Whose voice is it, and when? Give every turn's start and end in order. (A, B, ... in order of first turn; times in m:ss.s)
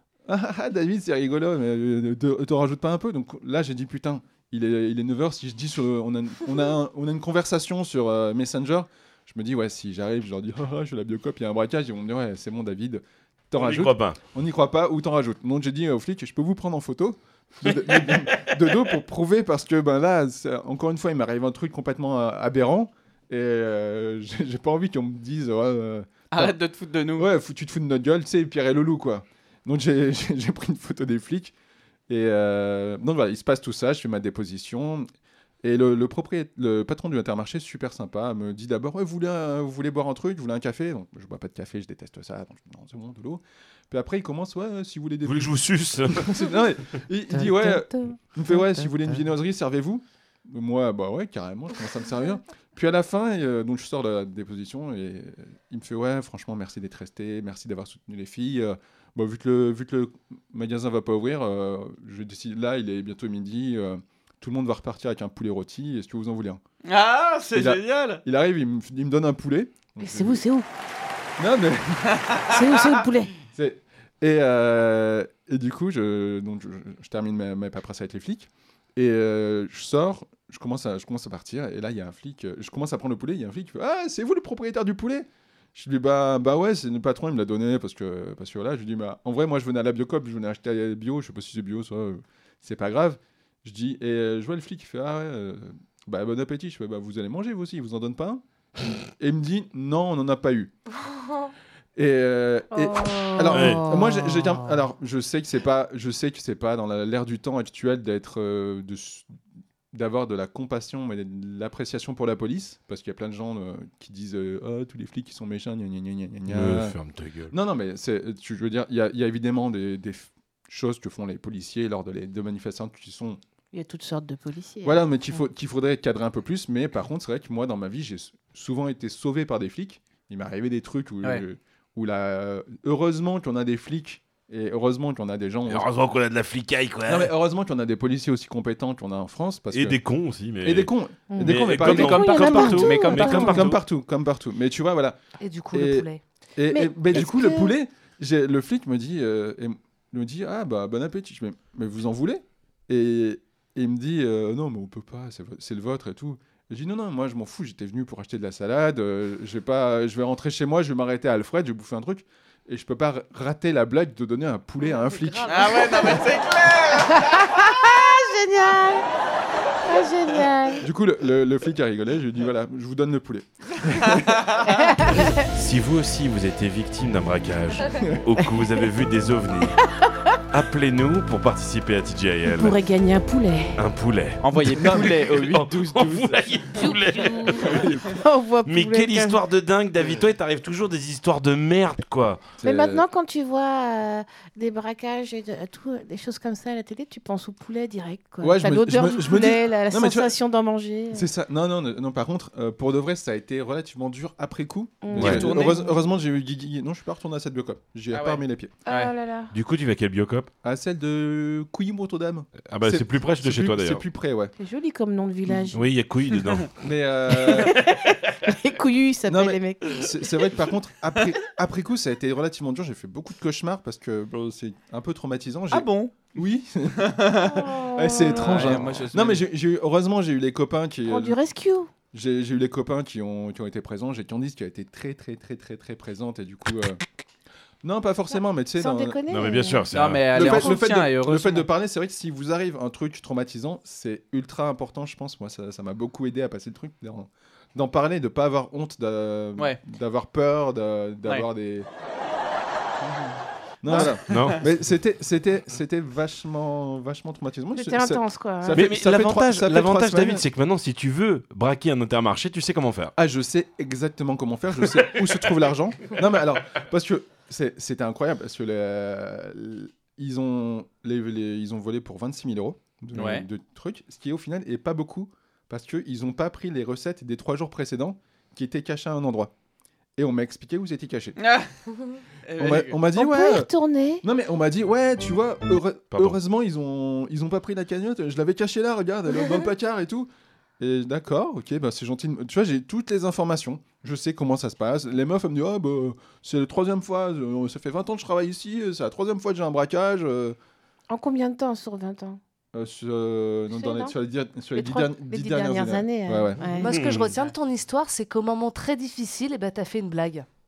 0:00.2-0:26.6 A
0:13.6-0:14.2 B
0:17.6-0:18.8 B
0:26.3-0:27.3 C
0:27.2-0:31.5 A
0:32.1-0:35.1 A
0:35.6-1:06.6 A
0:45.2-0:47.0 B
0:47.6-0:47.9 D
1:06.8-1:08.2 C
1:07.5-1:10.4 A
1:10.0-1:10.6 D
1:11.4-1:12.5 A
1:12.5-1:13.3 D
1:13.5-1:40.7 A
1:41.9-1:49.3 A
1:42.7-1:44.5 D
1:43.5-1:43.9 B
1:49.9-1:57.0 A
1:56.5-1:57.5 B
1:57.5-2:03.4 A
2:03.7-2:05.4 D
2:04.8-2:15.8 A
2:15.7-2:17.3 B
2:17.1-2:20.0 A
2:19.7-2:23.8 B
2:20.6-2:25.2 A
2:21.3-2:23.7 D
2:22.4-2:23.6 C
2:25.4-2:26.2 E
2:25.7-2:46.2 A
2:26.7-2:27.7 D
2:44.8-2:46.4 E
2:45.4-2:47.7 C
2:47.0-2:49.0 D
2:49.8-2:50.8 D
2:50.8-2:55.1 A
2:53.9-2:54.7 C
2:54.7-2:55.5 D
2:55.1-2:59.8 B
2:57.9-2:58.2 A
2:59.8-3:00.4 D
3:00.5-3:02.8 B
3:02.5-3:03.8 D
3:03.8-3:07.8 B
3:04.4-3:06.9 C
3:04.8-3:05.3 A
3:06.8-3:09.4 D
3:07.6-3:08.2 A
3:08.6-3:12.5 B
3:12.6-3:13.1 A
3:12.6-3:21.3 D
3:18.4-3:20.3 A
3:21.1-3:28.8 A
3:25.0-3:25.5 D
3:25.2-3:25.4 B
3:25.2-3:26.0 C
3:28.1-3:29.1 C
3:28.8-3:29.5 D
3:29.5-3:30.5 B
3:30.6-3:34.5 A
3:32.6-3:34.0 B
3:34.6-3:35.8 D
3:35.7-3:36.7 B
3:36.8-3:37.8 A
3:37.3-3:40.6 D
3:39.3-3:51.4 A
3:45.7-3:46.3 C
3:47.0-3:47.7 C
3:47.4-3:48.7 D
3:48.2-3:49.4 C
3:51.0-3:51.9 D
3:52.1-3:57.0 A
3:57.8-3:59.2 A
3:58.8-3:59.9 D
3:59.3-4:00.5 B
3:59.9-4:01.7 C
4:00.3-4:11.9 A
4:13.8-4:20.4 A
4:13.9-4:14.6 C
4:14.0-4:14.7 B
4:17.7-4:18.9 D
4:18.7-4:23.1 B
4:23.2-4:39.5 A
4:33.1-4:33.4 C
4:40.2-4:41.4 A
4:41.4-4:41.7 C
4:42.4-4:43.0 C
4:42.6-4:43.7 A
4:43.1-4:44.2 D
4:44.2-5:00.6 A
4:46.1-4:46.4 B
5:01.1-5:02.4 D
5:02.7-5:06.6 A
5:03.7-5:04.1 D
5:04.7-5:06.9 D
5:06.7-5:10.4 E
5:06.8-5:07.3 B